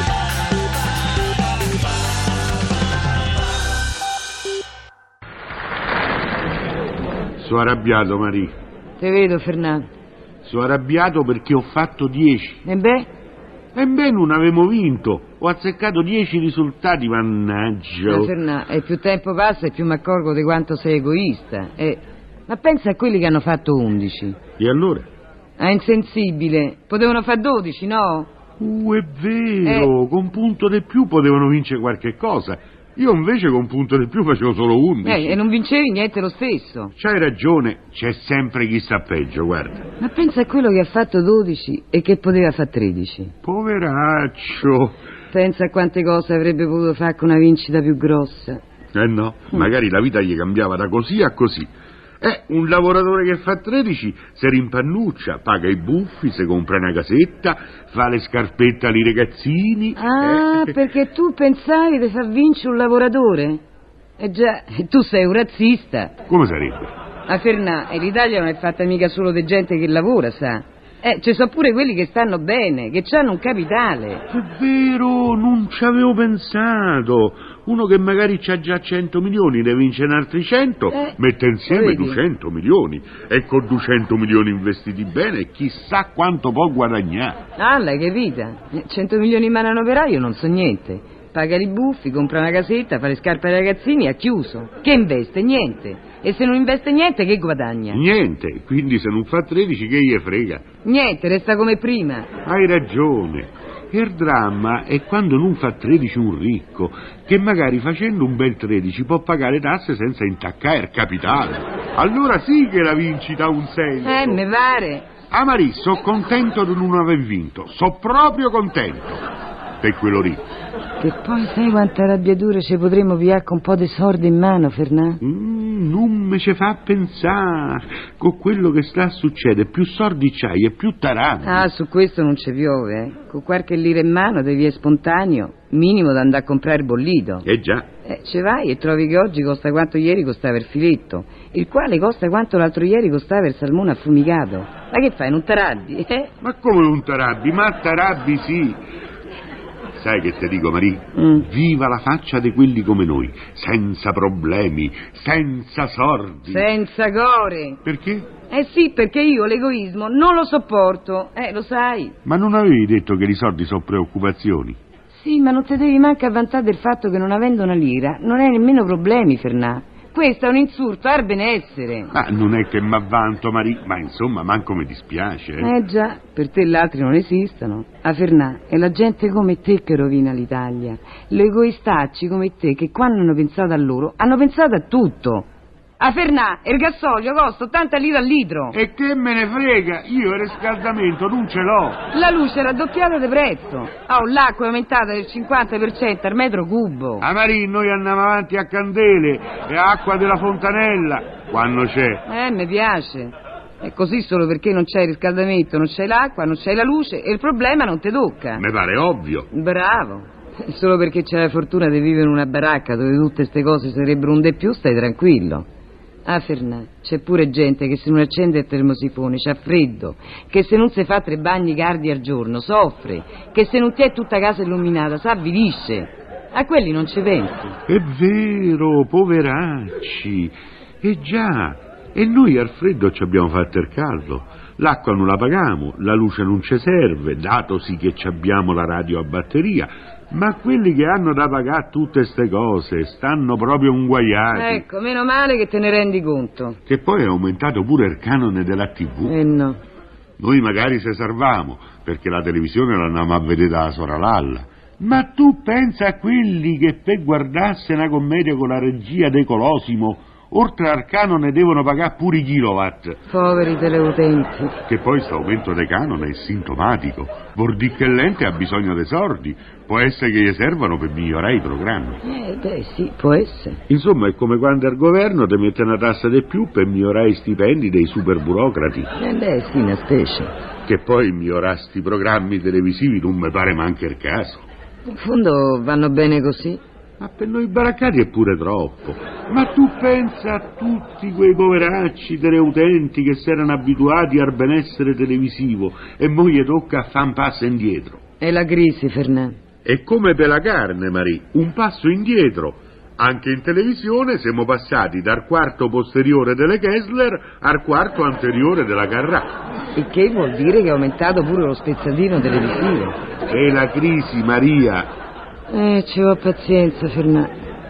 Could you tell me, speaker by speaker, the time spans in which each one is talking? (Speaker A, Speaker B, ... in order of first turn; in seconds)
Speaker A: 7.4-8.5, 10.4-12.6, 13.7-18.3, 24.6-25.1, 28.6-35.4, 37.0-39.8, 43.4-45.0, 48.9-51.7, 52.2-60.8, 66.3-66.9, 74.3-87.4, 97.9-100.6, 102.4-114.4, 115.3-119.2, 119.8-120.5, 125.2-131.7, 137.4-137.9, 146.4-148.8, 149.9-156.7, 157.8-158.3, 162.2-164.8, 172.1-175.7, 188.7-192.0, 197.2-202.2, 208.6-209.5, 227.9-244.8, 246.9-249.3, 250.4-263.2, 264.9-272.2, 273.9-279.1, 280.9-284.6, 287.2-298.2, 299.8-309.6, 313.5-315.1
Speaker B: 9.0-9.9, 12.6-13.1, 18.1-24.4, 25.6-28.3, 29.6-29.9, 35.0-36.9, 40.0-43.3, 45.3-48.6, 59.9-63.6, 64.2-66.1, 67.3-74.2, 81.7-82.2, 87.6-98.0, 100.8-102.3, 114.0-115.1, 121.0-125.2, 131.4-137.5, 138.0-146.3, 151.2-151.5, 156.5-157.8, 158.5-162.2, 165.1-172.1, 175.6-185.5, 186.0-188.8, 192.1-197.2, 202.2-208.6, 209.5-215.7, 216.2-227.8, 244.5-246.8, 249.2-249.8, 263.3-264.8, 272.2-273.8, 279.1-280.5, 285.1-286.8, 298.4-299.6, 309.9-313.2, 315.7-317.5